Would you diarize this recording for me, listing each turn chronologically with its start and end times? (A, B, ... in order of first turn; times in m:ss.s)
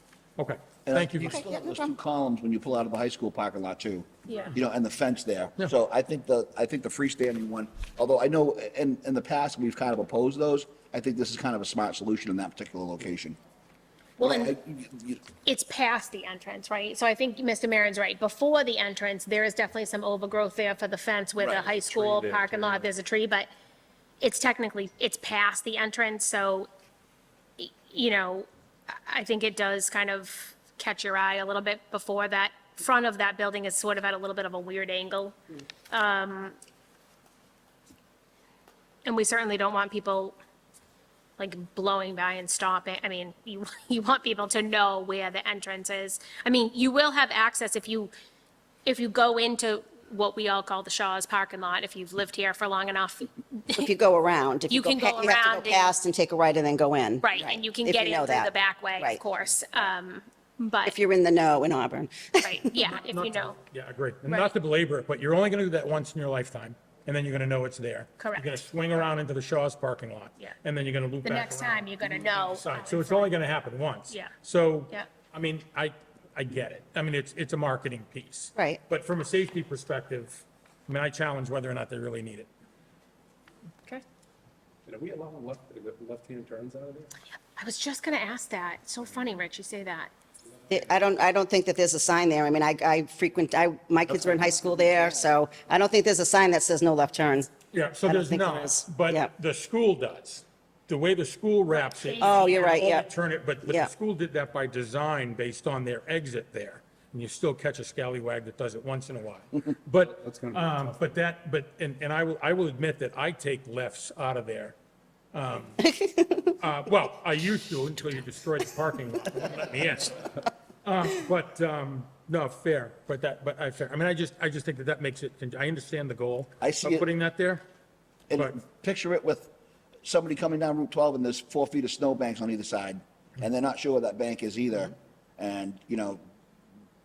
0:00.4-0:01.4 A
0:00.9-0:13.4 B
0:01.3-0:01.9 C
0:14.2-0:14.5 D
0:14.2-0:15.2 B
0:15.4-0:23.5 D
0:24.2-0:26.7 D
0:27.6-0:35.4 D
0:35.9-0:36.6 D
0:39.0-0:40.4 D
0:41.4-0:48.1 D
0:48.8-0:53.8 D
0:53.7-0:59.2 C
0:54.7-0:56.0 D
0:57.2-1:01.0 D
1:00.9-1:02.8 C
1:02.4-1:03.6 D
1:02.9-1:22.5 A
1:08.2-1:08.6 D
1:11.2-1:13.3 D
1:24.9-1:27.1 E
1:27.6-1:30.1 D
1:30.7-1:37.5 C
1:34.3-1:35.2 B
1:37.7-1:54.8 A
1:38.0-1:39.3 C
1:41.7-1:42.9 D
1:42.2-1:43.1 C
1:43.6-1:43.9 C
1:50.3-1:50.6 E
1:55.3-1:55.9 A
1:56.0-1:56.5 C
1:56.6-2:07.6 A
2:06.6-2:07.1 B
2:08.3-2:09.5 B
2:10.0-2:16.2 B